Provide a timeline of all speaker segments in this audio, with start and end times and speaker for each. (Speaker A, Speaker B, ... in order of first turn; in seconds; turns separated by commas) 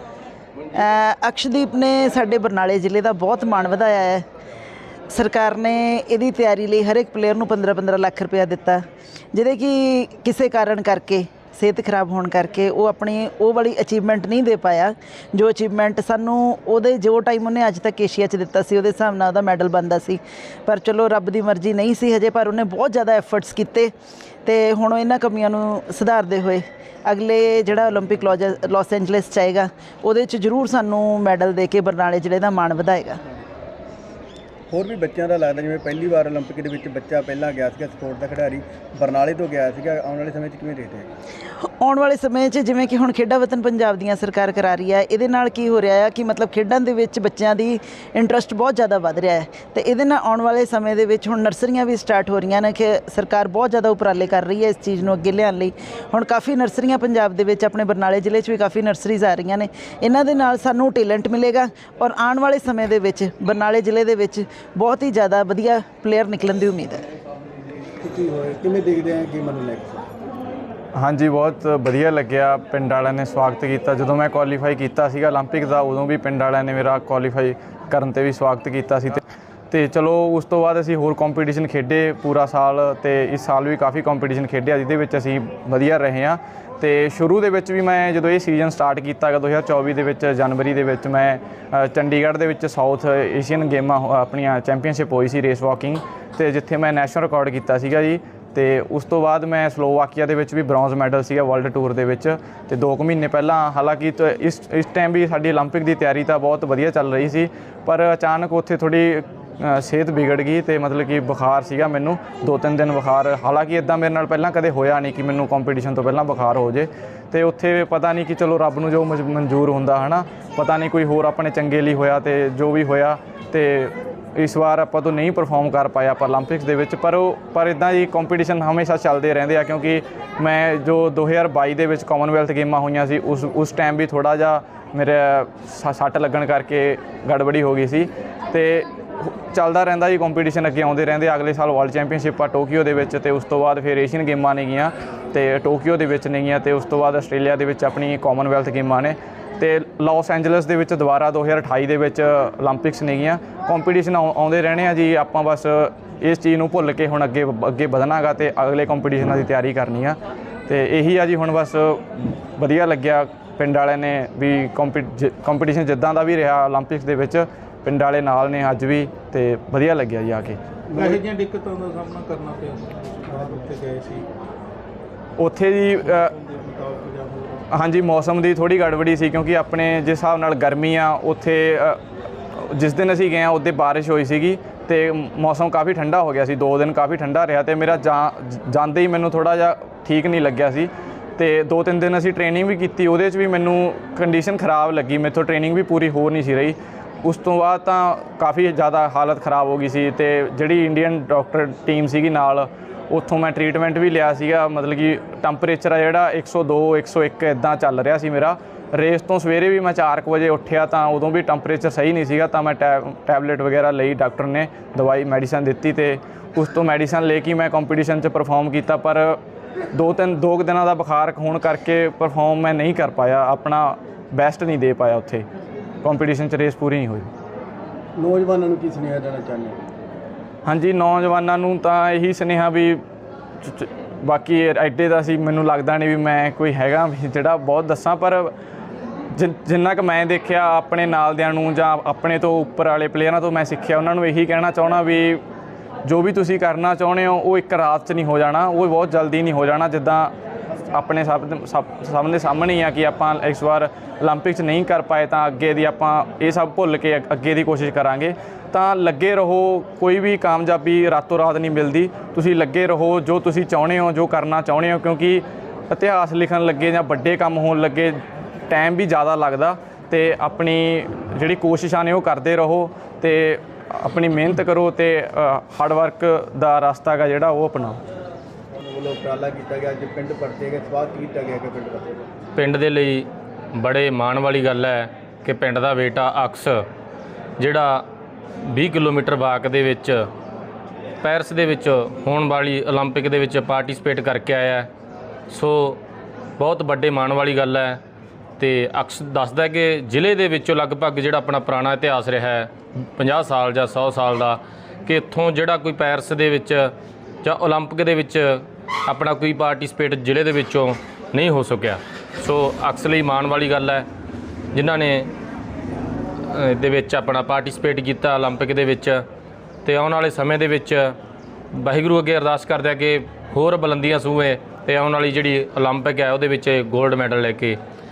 Speaker A: 0.7-4.2, Speaker A: 5.1-8.8, Speaker A: 9.3-23.9, Speaker A: 24.4-33.2, Speaker B: 34.7-41.1, Speaker A: 41.6-67.0, Speaker B: 68.0-70.1, Speaker C: 71.0-170.6, Speaker B: 170.9-171.2, Speaker D: 171.0-173.3, Speaker B: 173.3-173.7, Speaker D: 173.9-174.2, Speaker C: 175.4-176.3, Speaker D: 176.5-177.5, Speaker C: 177.7-182.0, Speaker C: 182.5-219.4, Speaker C: 219.9-225.5, Speaker C: 226.0-227.3, Speaker B: 228.2-229.8, Speaker C: 230.7-233.0, Speaker C: 233.6-238.5, Speaker C: 239.3-245.4, Speaker C: 246.1-250.3, Speaker C: 250.9-278.0, Speaker B: 278.8-282.2, Speaker E: 282.6-286.8, Speaker E: 287.6-288.0, Speaker E: 288.6-290.3, Speaker E: 291.2-294.9, Speaker E: 295.5-296.0, Speaker E: 296.6-298.0, Speaker E: 298.6-314.1, Speaker E: 314.7-315.3, Speaker E: 316.5-319.2, Speaker E: 319.9-321.2, Speaker E: 321.7-327.8